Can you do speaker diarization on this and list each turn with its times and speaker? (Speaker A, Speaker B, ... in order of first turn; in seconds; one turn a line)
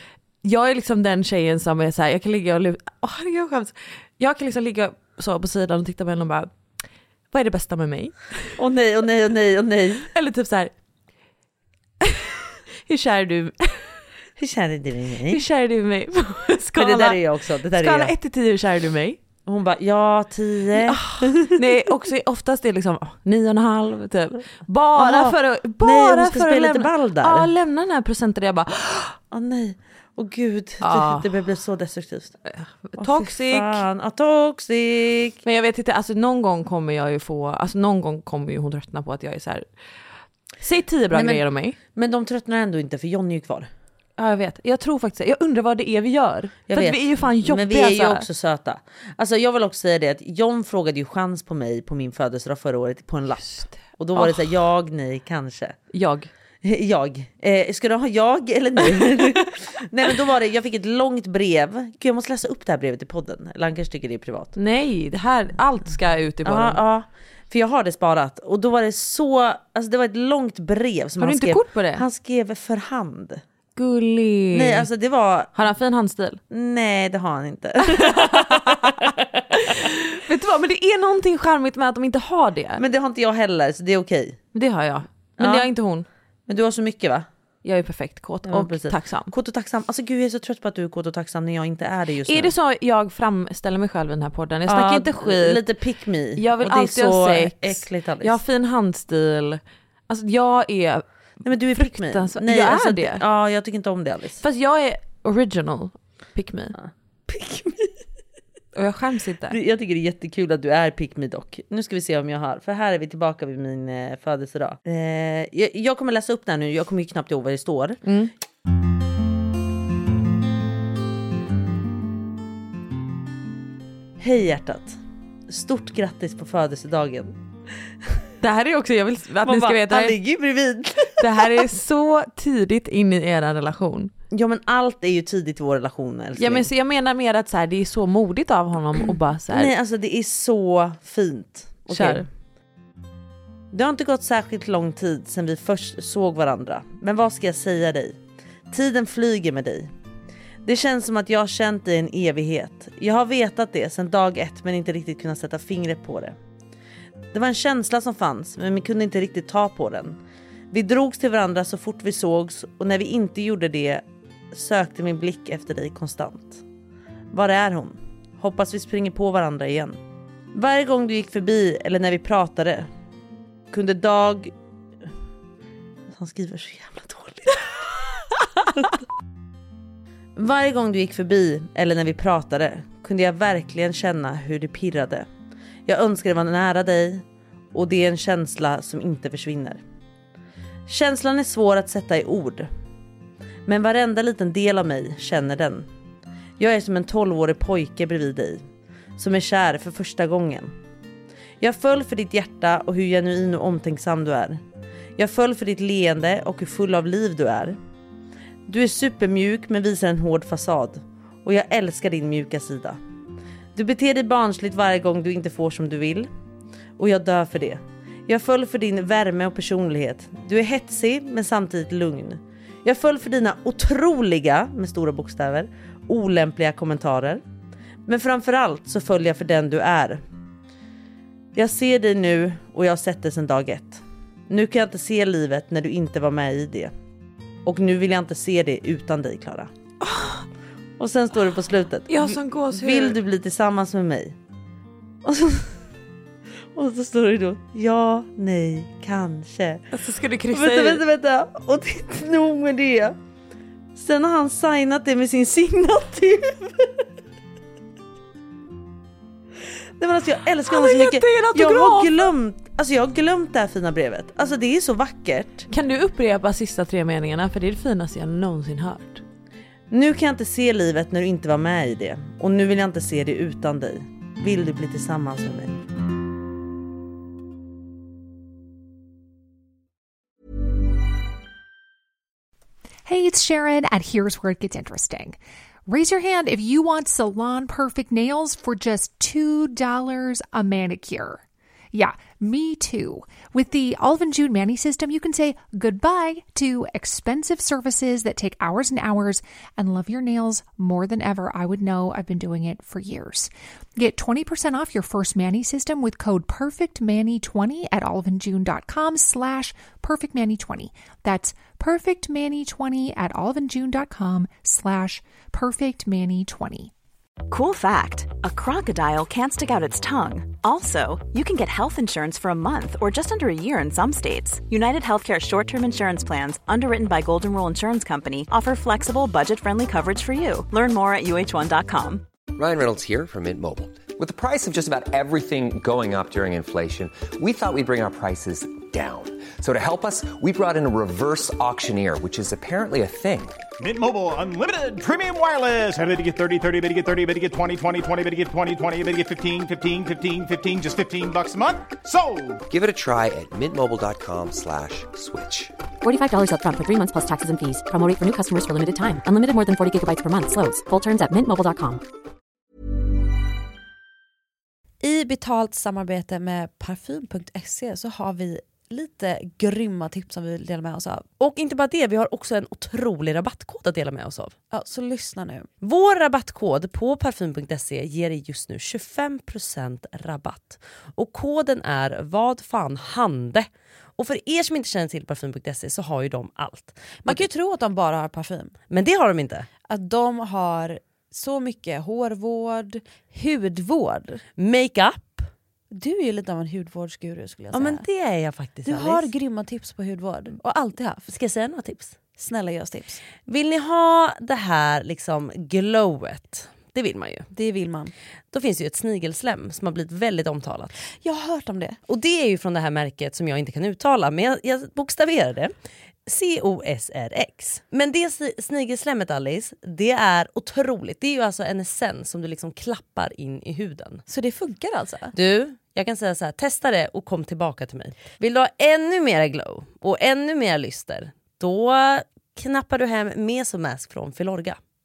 Speaker A: 0.4-6.5
Speaker A: 7.3-8.6
Speaker B: 8.6-10.1
Speaker A: 10.1-10.7
Speaker A: 12.0-14.0
Speaker B: 14.4-15.4
Speaker A: 15.3-19.2
Speaker B: 16.8-18.1
Speaker B: 19.4-21.8
Speaker A: 20.7-29.2
Speaker B: 24.9-27.5
Speaker B: 29.3-32.4
Speaker A: 30.8-31.3
Speaker A: 32.5-33.8
Speaker B: 33.0-35.4
Speaker A: 35.4-39.6
Speaker A: 40.6-41.8
Speaker B: 41.1-41.4
Speaker B: 41.9-43.7
Speaker A: 44.2-48.2
Speaker B: 46.7-55.8
Speaker A: 53.4-54.5
Speaker A: 55.9-56.3
Speaker B: 56.6-64.5
Speaker A: 59.0-59.4
Speaker A: 64.5-66.8
Speaker B: 66.4-73.4
Speaker A: 71.2-72.0
Speaker A: 73.8-74.9
Speaker B: 74.5-75.5
Speaker A: 75.5-76.4
Speaker B: 76.5-79.7
Speaker A: 77.8-82.8
Speaker B: 82.8-84.4
Speaker A: 84.5-86.0
Speaker B: 85.4-85.7
Speaker B: 86.5-87.3
Speaker A: 87.6-89.3
Speaker B: 88.5-92.5
Speaker A: 92.2-95.6
Speaker B: 94.7-98.4
Speaker A: 96.4-101.0
Speaker B: 101.4-104.4
Speaker A: 101.7-103.2
Speaker A: 104.4-106.7
Speaker B: 106.7-107.9
Speaker A: 108.7-109.6
Speaker B: 109.5-118.0
Speaker A: 118.0-118.3
Speaker B: 124.2-127.3
Speaker A: 128.4-130.2
Speaker B: 129.4-131.6
Speaker A: 131.2-134.1
Speaker B: 134.3-136.7
Speaker A: 136.4-139.7
Speaker B: 139.5-142.3
Speaker A: 141.9-142.2
Speaker B: 143.7-148.2
Speaker B: 148.7-149.9
Speaker B: 150.6-156.3
Speaker B: 157.3-160.2
Speaker B: 160.7-166.6
Speaker B: 167.3-170.0
Speaker B: 170.5-172.9
Speaker B: 173.7-174.5
Speaker B: 176.1-177.7
Speaker B: 180.3-185.3
Speaker B: 185.8-189.8
Speaker B: 190.9-192.7
Speaker B: 193.7-195.9
Speaker B: 196.6-198.6
Speaker B: 199.2-200.7
Speaker B: 201.6-204.6
Speaker B: 205.2-207.8
Speaker B: 208.7-213.0
Speaker B: 213.7-216.3
Speaker B: 217.0-227.4
Speaker B: 228.1-230.2
Speaker B: 231.5-236.9
Speaker B: 237.7-239.7
Speaker A: 240.0-240.4
Speaker B: 241.0-244.3
Speaker A: 242.1-243.2
Speaker B: 245.2-245.7
Speaker B: 246.7-249.8
Speaker A: 249.9-251.0
Speaker B: 250.5-253.2
Speaker B: 253.9-257.0
Speaker B: 260.0-265.7
Speaker A: 260.6-262.3
Speaker A: 265.7-269.2
Speaker B: 269.9-275.8
Speaker C: 283.1-291.4
Speaker C: 291.9-316.9
Speaker D: 317.5-332.2
Speaker E: 332.5-343.6
Speaker F: 343.8-352.6
Speaker E: 352.7-355.7
Speaker G: 356.0-362.0
Speaker H: 365.0-371.3
Speaker B: 371.4-374.5
Speaker H: 374.7-375.7
Speaker B: 375.8-383.6
Speaker B: 384.2-387.4
Speaker H: 387.2-388.7
Speaker B: 388.9-389.7
Speaker H: 389.8-394.4
Speaker B: 394.6-395.4
Speaker H: 395.9-398.0
Speaker B: 397.7-399.3
Speaker H: 398.8-401.3
Speaker B: 401.3-402.1
Speaker H: 402.3-403.2
Speaker B: 403.5-407.4
Speaker H: 407.5-408.1
Speaker B: 408.5-410.9
Speaker H: 411.1-412.0
Speaker B: 412.1-415.7
Speaker B: 416.3-424.2
Speaker H: 424.3-425.3
Speaker B: 425.4-434.8